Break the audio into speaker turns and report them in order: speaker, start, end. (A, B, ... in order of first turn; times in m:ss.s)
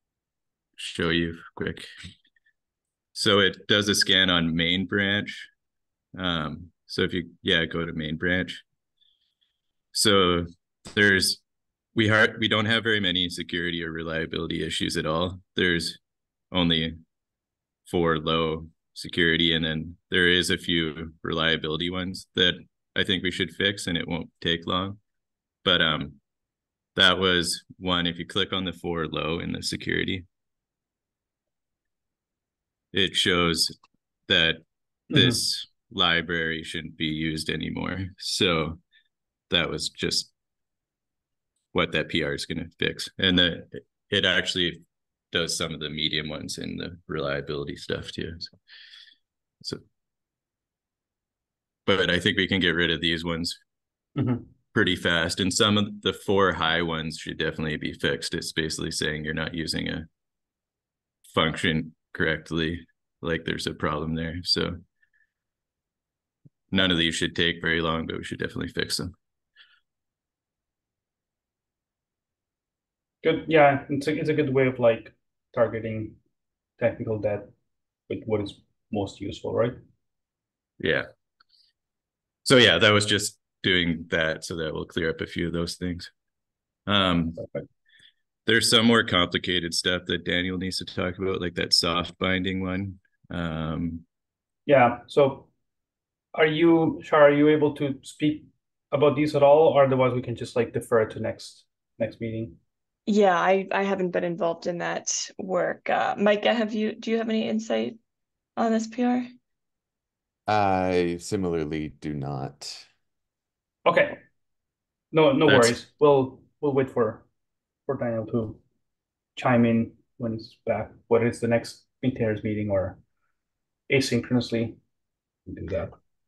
0:00.8-0:01.9 A
0:03.1-0:05.5 A
0:06.2-0:08.6 A
0:09.9-0:11.4 A
0:12.0-0:16.0 A
0:16.5-0:17.0 A
0:17.9-0:25.0 A
0:25.6-0:26.2 A
0:27.0-0:30.3 A
0:32.9-0:33.7 A
0:34.3-0:38.8 A
0:35.1-0:35.4 B
0:39.5-0:40.3 A
0:41.7-0:44.8 A
0:45.3-0:48.5 A
0:51.9-0:53.6 A
0:54.2-0:54.5 B
0:54.7-1:00.1 A
1:01.3-1:04.8 A
1:06.7-1:09.1 A
1:13.2-1:16.2 B
1:16.8-1:17.5 B
1:18.1-1:19.8 B
1:20.8-1:21.0 A
1:22.4-1:26.1 A
1:26.9-1:27.4 A
1:27.4-1:27.6 B
1:28.5-1:34.0 A
1:34.7-1:35.5 B
1:36.3-1:42.6 B
1:43.1-1:48.0 C
1:48.6-1:49.3 C
1:50.5-1:52.7 D
1:53.9-1:54.2 B
1:55.1-1:57.3 B
1:55.5-1:55.8 A
1:57.9-1:58.6 B
1:59.4-2:03.0 B
2:03.9-2:04.8 B
2:05.5-2:06.0 B